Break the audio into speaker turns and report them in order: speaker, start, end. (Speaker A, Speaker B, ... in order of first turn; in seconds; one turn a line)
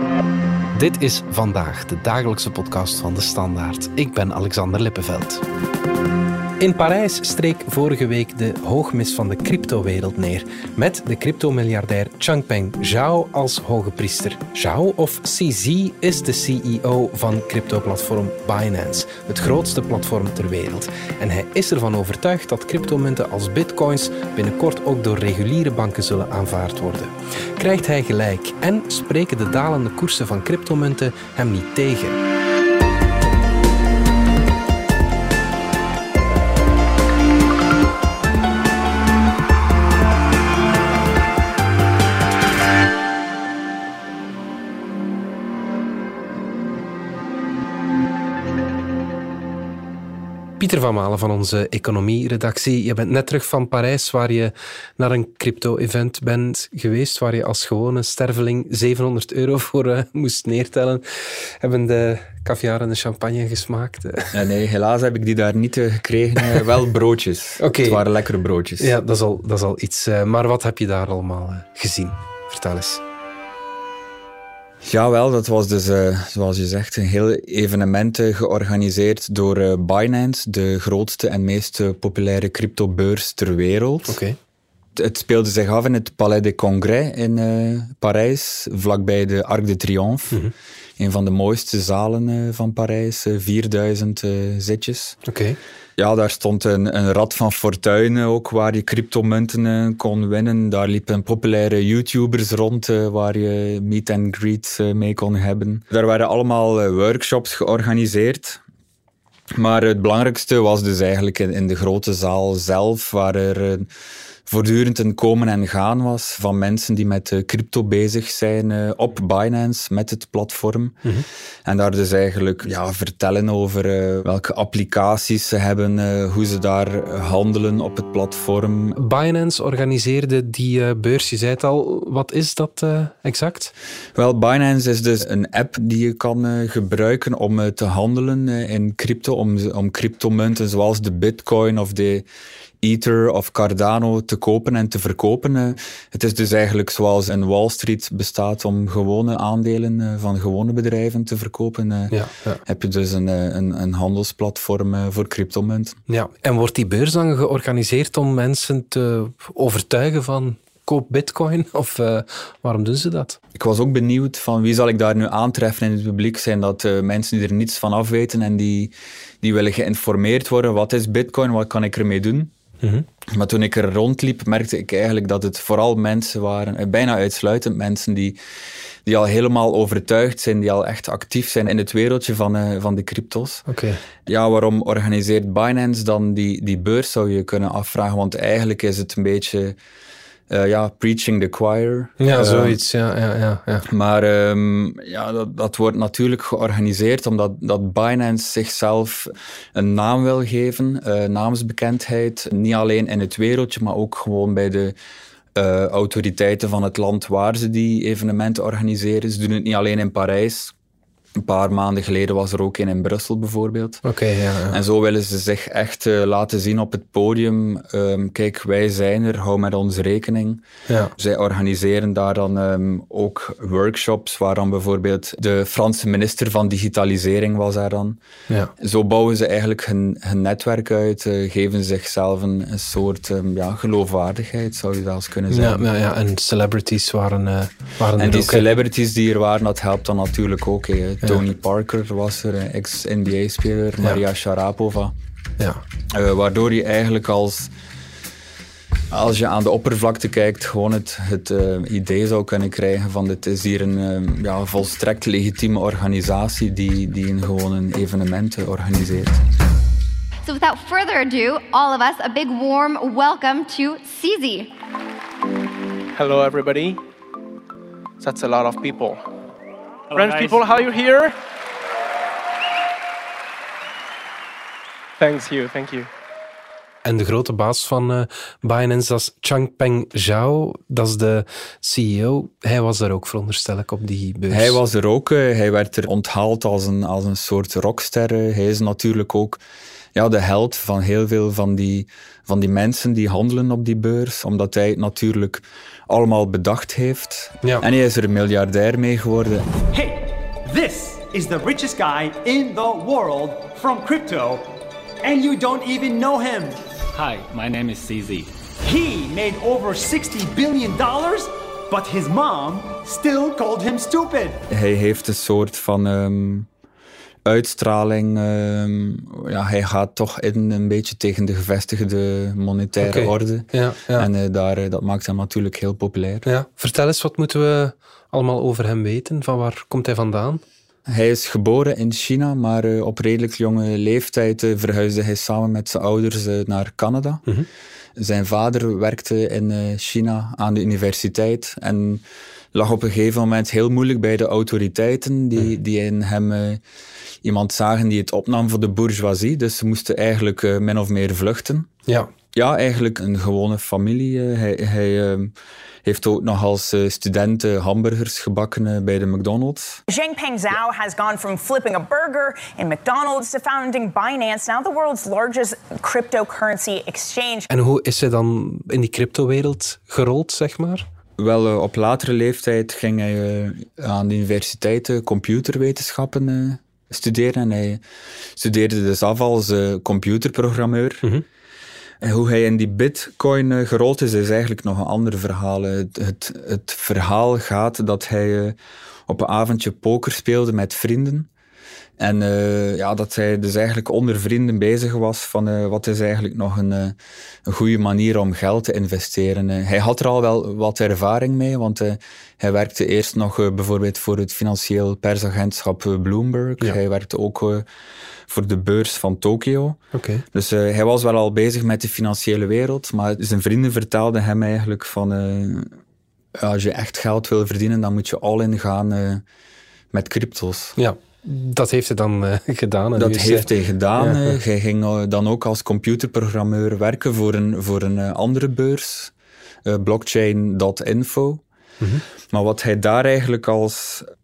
Speaker A: 0.7-5.4
Speaker A: 6.6-32.2
Speaker A: 50.6-64.4
Speaker B: 64.3-68.9
Speaker A: 67.6-68.0
Speaker A: 68.8-73.0
Speaker B: 74.8-84.2
Speaker A: 84.1-84.4
Speaker B: 85.0-90.4
Speaker B: 91.0-95.2
Speaker A: 95.3-95.6
Speaker B: 96.0-108.6
Speaker B: 109.5-113.9
Speaker B: 114.5-121.0
Speaker B: 121.7-129.0
Speaker A: 129.0-133.7
Speaker B: 134.2-142.3
Speaker B: 142.8-156.0
Speaker A: 152.1-152.6
Speaker A: 156.1-163.4
Speaker B: 163.6-172.5
Speaker B: 173.3-178.4
Speaker B: 179.1-183.6
Speaker A: 183.7-184.0
Speaker B: 184.3-189.8
Speaker B: 190.5-192.8
Speaker A: 192.2-193.9
Speaker B: 193.9-205.0
Speaker B: 205.6-210.7
Speaker B: 211.4-214.0
Speaker A: 214.0-214.8
Speaker B: 214.7-220.6
Speaker A: 220.9-221.1
Speaker B: 221.2-228.2
Speaker B: 228.8-235.9
Speaker A: 235.5-238.7
Speaker B: 238.2-245.1
Speaker B: 246.1-247.7
Speaker B: 249.1-259.4
Speaker C: 260.5-264.7
Speaker D: 266.2-267.0
Speaker D: 268.2-269.2
Speaker E: 270.1-270.6
Speaker D: 270.1-271.4
Speaker D: 275.2-276.1
Speaker A: 277.0-284.8
Speaker B: 284.5-289.6
Speaker B: 290.1-299.8
Speaker F: 299.9-306.8
Speaker E: 307.1-308.5
Speaker F: 308.8-314.6
Speaker B: 314.7-316.7
Speaker B: 317.4-326.5
Speaker A: 323.0-324.3
Speaker A: 326.4-330.6
Speaker B: 331.1-337.4
Speaker B: 338.2-342.2
Speaker B: 342.7-346.8
Speaker B: 347.4-351.9
Speaker B: 352.5-355.5
Speaker B: 356.1-360.0
Speaker G: 360.1-367.7
Speaker A: 367.7-371.1
Speaker B: 371.4-378.0
Speaker B: 378.6-381.2
Speaker B: 382.2-391.5
Speaker B: 392.2-407.9
Speaker B: 408.5-410.0
Speaker A: 410.1-410.4
Speaker B: 410.5-415.9
Speaker B: 416.6-419.4
Speaker B: 420.1-421.0
Speaker A: 421.0-424.6
Speaker B: 423.2-429.3
Speaker B: 429.9-431.6
Speaker B: 432.5-434.3